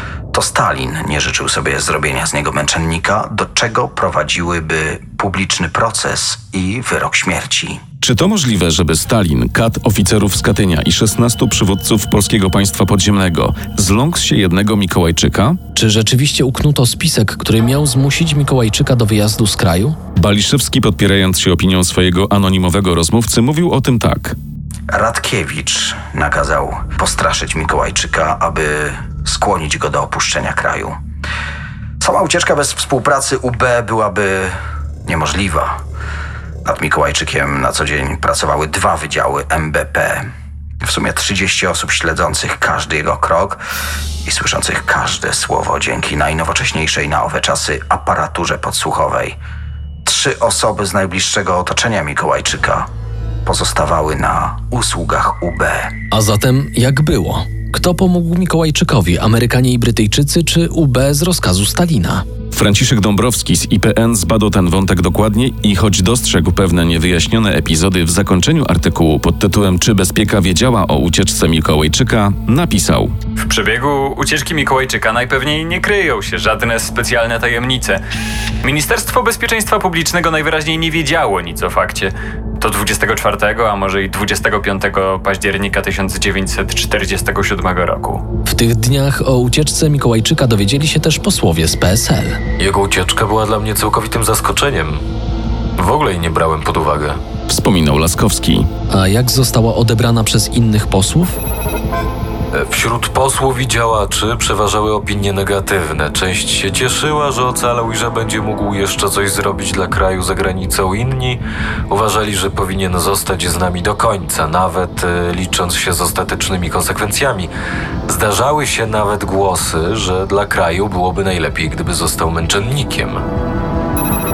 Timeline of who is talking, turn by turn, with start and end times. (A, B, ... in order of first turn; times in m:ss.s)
0:00.3-0:07.8 A
0:08.0-0:15.6 B
0:15.7-0:20.0 C
0:20.2-0:24.4 B
0:24.9-0:30.9 A
0:32.0-0:35.7 A
0:36.6-0:40.3 A
0:40.8-0:43.6 A
0:44.2-0:49.4 A
0:50.0-0:52.9 A
0:53.4-0:55.9 A
0:56.1-1:02.2 C
1:02.5-1:13.2 B
1:13.4-1:18.0 D
1:18.6-1:28.2 D
1:28.4-1:32.4 C
1:32.6-1:35.0 E
1:35.8-1:37.2 E
1:37.5-1:38.7 B
1:38.9-1:41.4 C
1:42.5-1:57.5 E
1:58.1-2:03.2 E